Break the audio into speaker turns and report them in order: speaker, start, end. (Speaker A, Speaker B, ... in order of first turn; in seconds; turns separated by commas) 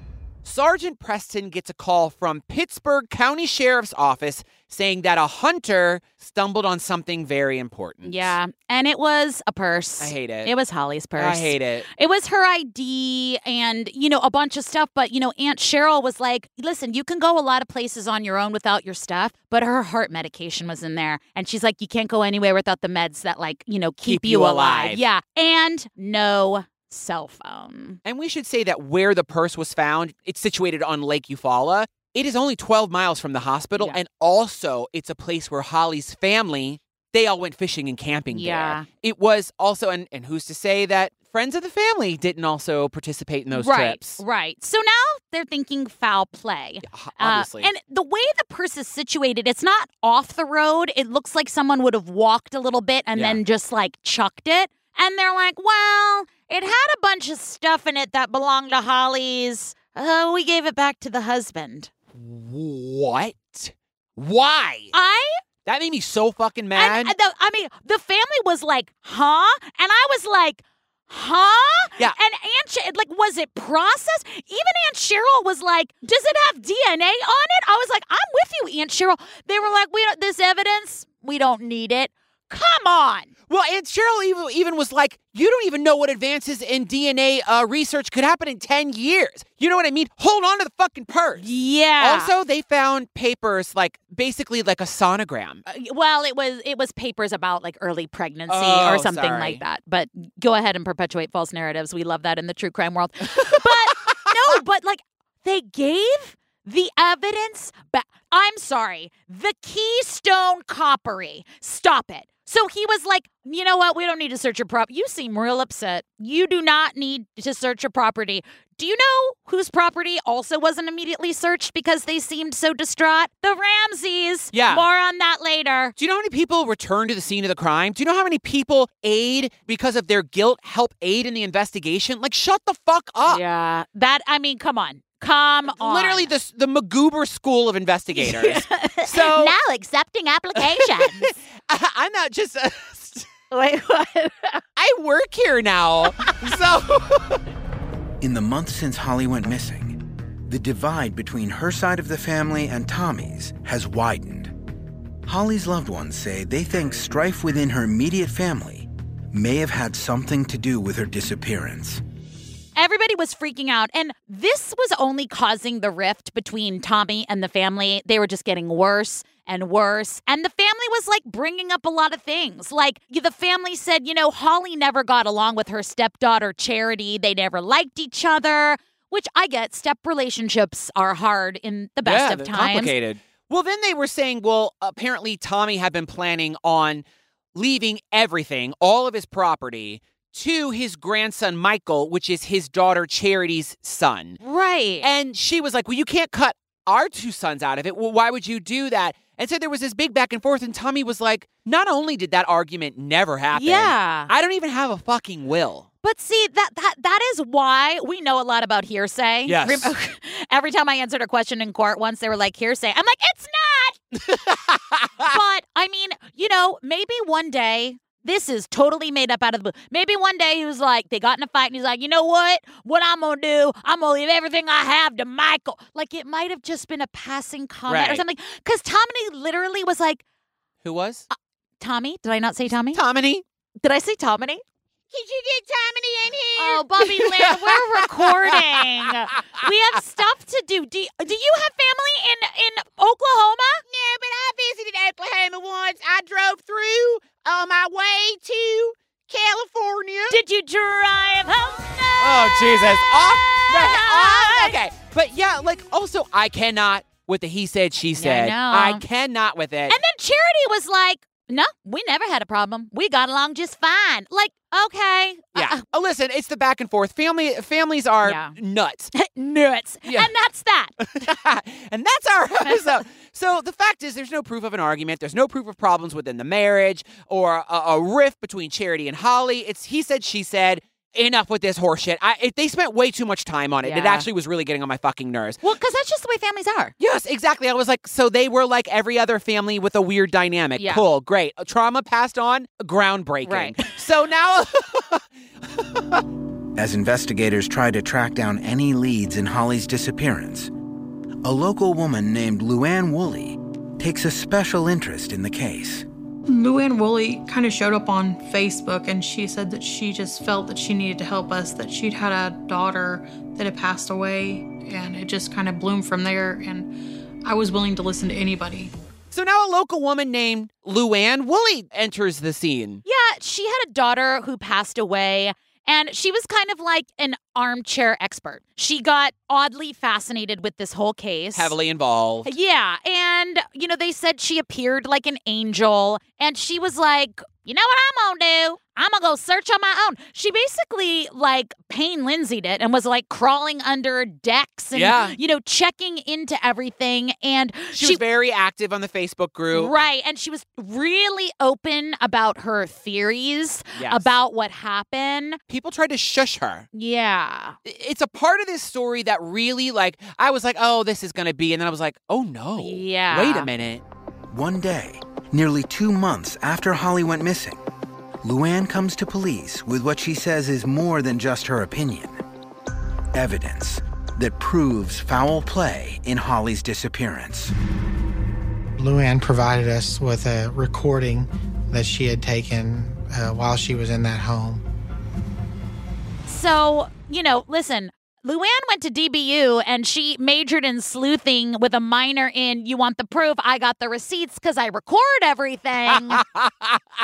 Speaker A: 0.4-8.3, Speaker B: 8.0-28.0, Speaker A: 10.0-10.5, Speaker A: 11.2-11.9, Speaker A: 24.1-25.0, Speaker A: 28.0-44.2, Speaker B: 38.3-38.9, Speaker B: 43.5-61.9, Speaker A: 46.9-47.7, Speaker A: 53.1-53.4, Speaker A: 62.1-64.9, Speaker B: 64.9-65.4, Speaker A: 65.7-67.1, Speaker B: 66.7-83.3, Speaker A: 83.5-91.4, Speaker B: 91.4-92.3, Speaker A: 92.0-95.6, Speaker B: 95.7-125.9, Speaker A: 98.5-99.6, Speaker A: 103.3-104.2, Speaker A: 124.5-124.8, Speaker A: 126.0-133.4, Speaker B: 133.2-136.3, Speaker A: 135.7-139.6, Speaker B: 138.1-141.3, Speaker A: 140.6-143.3, Speaker B: 143.5-144.6, Speaker A: 144.8-147.4, Speaker C: 148.2-154.5, Speaker C: 155.2-162.0, Speaker B: 162.8-182.9, Speaker A: 182.0-187.0, Speaker A: 187.5-194.4, Speaker B: 194.4-195.1, Speaker A: 195.0-205.9, Speaker B: 203.5-204.3, Speaker B: 206.0-214.0, Speaker A: 209.4-209.9, Speaker A: 214.1-215.3, Speaker B: 215.2-230.2, Speaker A: 227.9-228.2, Speaker A: 230.8-231.2, Speaker B: 231.8-233.0, Speaker A: 232.9-233.4, Speaker B: 233.8-234.6, Speaker A: 235.1-239.6, Speaker B: 236.6-243.8, Speaker A: 243.9-250.4, Speaker B: 250.3-254.8, Speaker A: 252.2-260.0, Speaker B: 258.2-259.0, Speaker B: 259.9-265.8, Speaker A: 265.5-269.1, Speaker B: 268.2-268.5, Speaker B: 269.1-270.9, Speaker A: 271.0-285.6, Speaker B: 283.8-284.3, Speaker B: 285.6-286.9, Speaker A: 287.0-295.2, Speaker B: 290.8-291.0, Speaker B: 293.4-293.8, Speaker A: 295.9-296.2, Speaker C: 296.7-300.7, Speaker C: 301.4-306.1, Speaker D: 306.5-318.9, Speaker A: 319.3-323.0, Speaker B: 323.0-331.7, Speaker A: 331.5-332.5, Speaker B: 332.4-348.2, Speaker A: 344.9-345.4, Speaker A: 347.9-349.9, Speaker B: 349.7-355.6, Speaker A: 353.9-354.3, Speaker A: 355.7-356.9, Speaker B: 356.9-357.8, Speaker A: 357.8-364.0, Speaker B: 362.8-363.7, Speaker C: 364.5-367.8, Speaker C: 368.4-372.4, Speaker C: 373.3-377.7, Speaker E: 379.0-384.8, Speaker B: 386.5-396.4, Speaker A: 396.1-397.0